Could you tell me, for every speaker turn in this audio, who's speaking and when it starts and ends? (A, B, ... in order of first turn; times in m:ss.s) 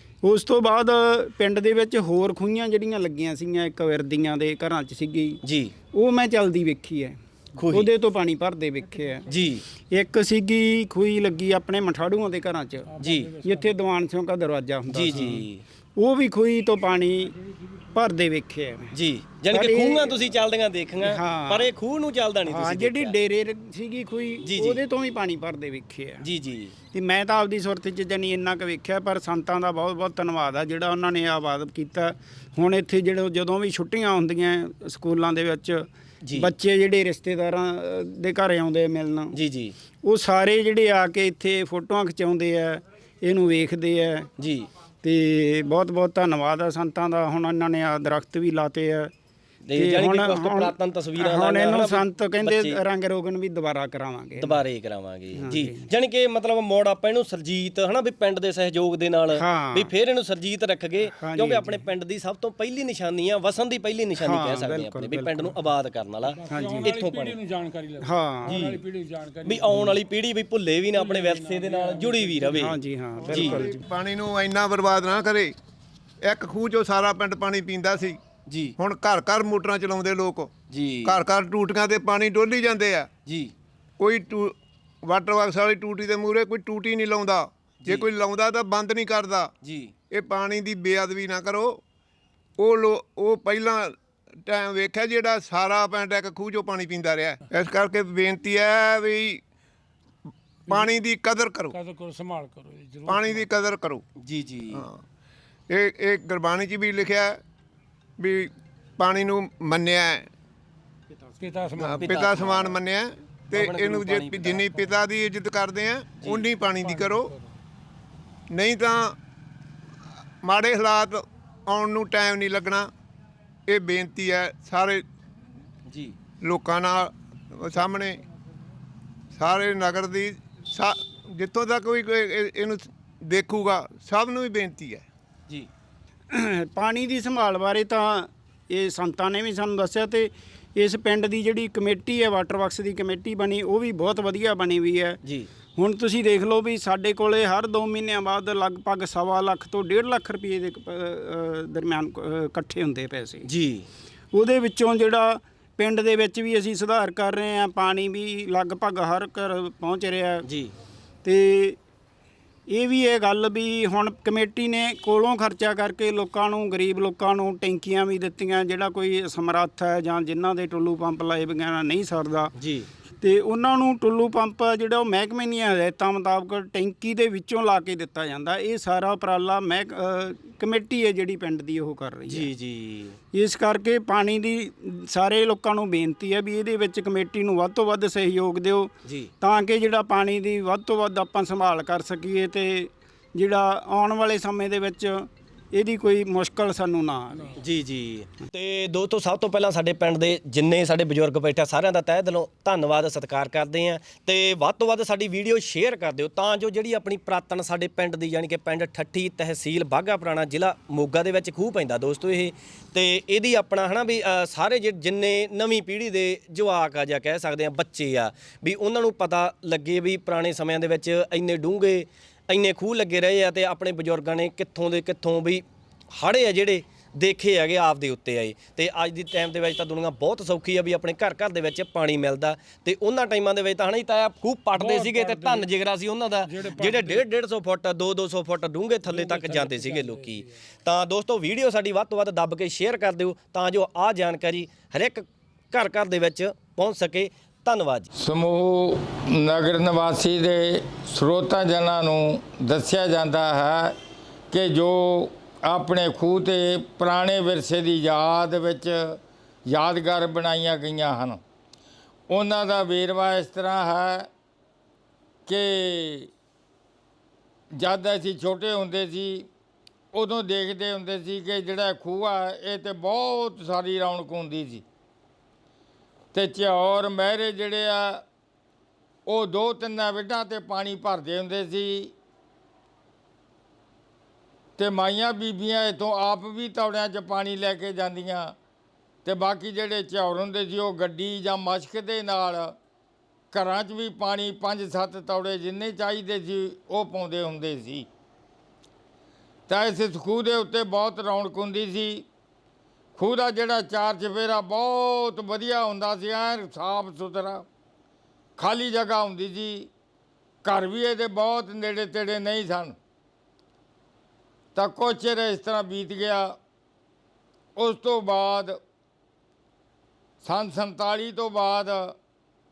0:00.2-0:05.4 A
0:05.4-0:05.8 B
0:05.9-0:09.3 A
0:07.6-0:07.9 B
0:09.3-0:09.6 B
0:09.8-0:17.4 A
0:12.9-0:13.7 C
0:13.0-0:13.4 B
0:14.9-0:15.6 B
0:17.9-0:18.9 A
0:18.9-0:23.2 B
0:19.5-0:20.3 A
0:21.0-0:21.7 A
0:22.5-0:26.3 A
0:24.4-0:24.8 B
0:26.2-0:26.8 B
0:26.9-0:39.4 A
0:36.2-0:36.5 B
0:39.3-0:39.8 B
0:40.0-0:44.3 A
0:44.4-0:44.7 B
0:45.0-0:49.1 A
0:49.7-0:52.8 B
0:49.8-0:54.6 A
0:54.4-1:07.4 B
0:55.4-0:55.9 A
0:59.3-0:59.9 A
1:01.2-1:01.9 A
1:04.2-1:05.6 A
1:06.3-1:10.0 C
1:06.5-1:06.9 A
1:08.0-1:08.8 A
1:08.4-1:08.8 B
1:09.4-1:12.8 B
1:11.0-1:12.4 C
1:12.5-1:13.8 A
1:13.2-1:15.5 D
1:13.3-1:13.6 B
1:16.2-1:18.2 D
1:18.5-1:18.8 B
1:18.8-1:20.5 D
1:20.7-1:21.2 B
1:21.0-1:23.1 D
1:23.3-1:23.5 B
1:24.0-1:29.5 D
1:27.8-1:28.1 B
1:29.6-1:29.9 B
1:30.1-1:31.8 D
1:32.6-1:39.4 D
1:40.7-1:41.8 D
1:41.7-1:43.4 C
1:43.1-1:44.0 D
1:44.2-1:44.8 B
1:44.7-1:45.0 D
1:45.7-1:47.4 D
1:48.2-1:50.3 D
1:51.4-1:52.2 C
1:51.8-1:57.3 D
1:52.0-1:52.8 B
1:53.5-1:54.7 B
1:57.0-1:57.4 C
1:58.5-1:59.2 D
2:00.4-2:02.9 D
2:03.7-2:05.0 D
2:05.9-2:06.2 B
2:06.4-2:08.2 D
2:09.3-2:15.1 D
2:16.3-2:25.2 A
2:25.2-2:25.5 B
2:25.8-2:33.5 A
2:33.4-2:33.9 B
2:34.3-2:40.5 A
2:40.4-2:40.7 B
2:41.2-2:41.8 A
2:42.7-2:52.5 A
2:52.6-2:52.9 B
2:53.2-3:02.5 A
3:02.3-3:03.2 B
3:03.3-3:17.6 A
3:09.0-3:09.3 B
3:17.6-4:08.1 B
3:54.8-3:55.7 C
3:56.5-3:57.2 C
3:59.1-4:00.5 C
4:08.2-4:14.0 E
4:14.5-4:19.2 E
4:19.7-4:21.4 E
4:22.3-4:24.3 E
4:25.5-4:26.3 E
4:27.8-4:29.5 E
4:30.1-4:34.8 E
4:36.3-4:38.2 E
4:39.3-4:42.1 E
4:44.8-4:48.5 E
4:49.2-4:52.8 E
4:53.5-4:58.1 E
4:59.7-5:02.3 E
5:03.2-5:07.6 E
5:08.6-5:09.9 E
5:10.6-5:13.0 E
5:14.8-5:16.6 E
5:17.8-5:18.8 E
5:20.4-5:22.2 E